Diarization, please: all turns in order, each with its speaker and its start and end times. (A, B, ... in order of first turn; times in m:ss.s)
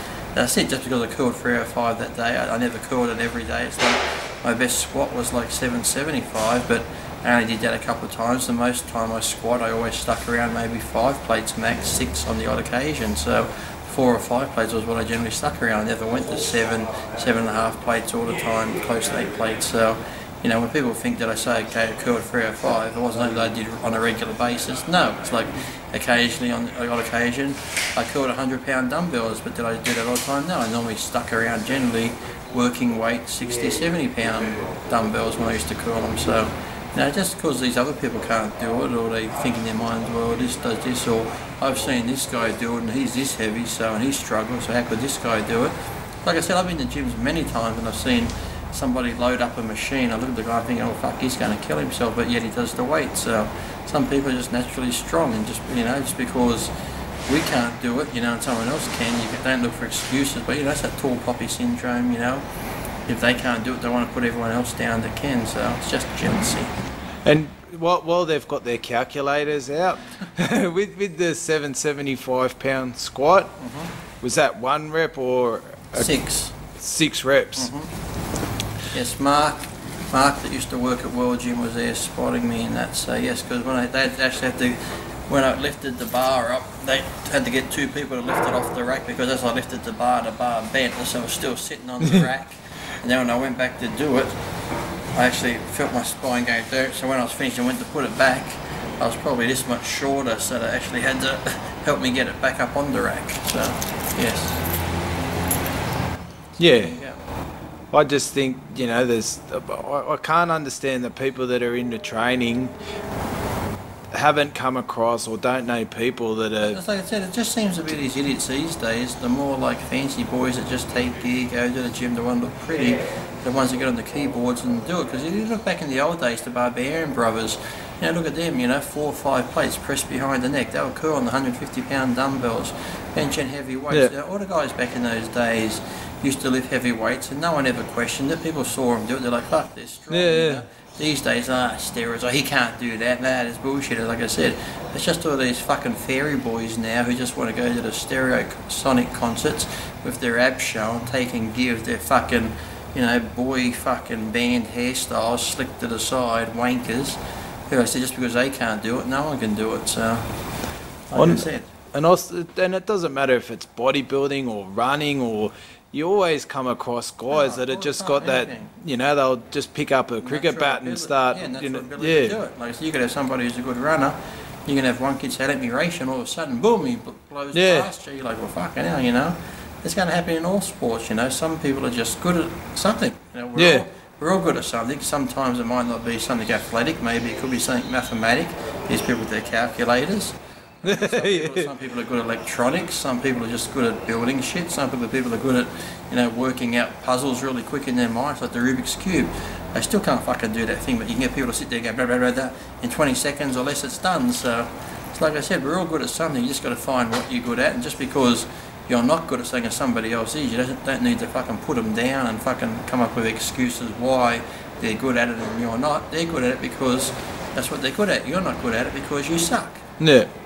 0:00.3-0:56.7 A
0:57.3-1:02.4 A
1:03.1-1:06.7 A
1:07.2-1:13.5 B
1:13.6-1:13.9 A
1:14.2-1:16.1 B
1:15.9-1:16.6 A
1:16.7-1:17.7 B
1:17.6-1:17.9 A
1:18.9-1:34.3 A
1:35.1-1:44.6 A
1:46.6-1:47.0 B
1:46.6-1:47.2 A
1:47.9-1:52.7 B
1:54.1-1:56.8 B
1:56.6-2:37.2 A
2:20.1-2:20.6 B
2:37.7-2:40.2 A
2:41.1-2:41.7 A
2:41.1-2:52.4 B
2:47.3-2:48.7 A
2:50.2-3:39.8 A
2:57.5-2:57.9 B
3:03.5-3:03.8 B
3:10.8-3:11.7 B
3:40.0-3:40.3 B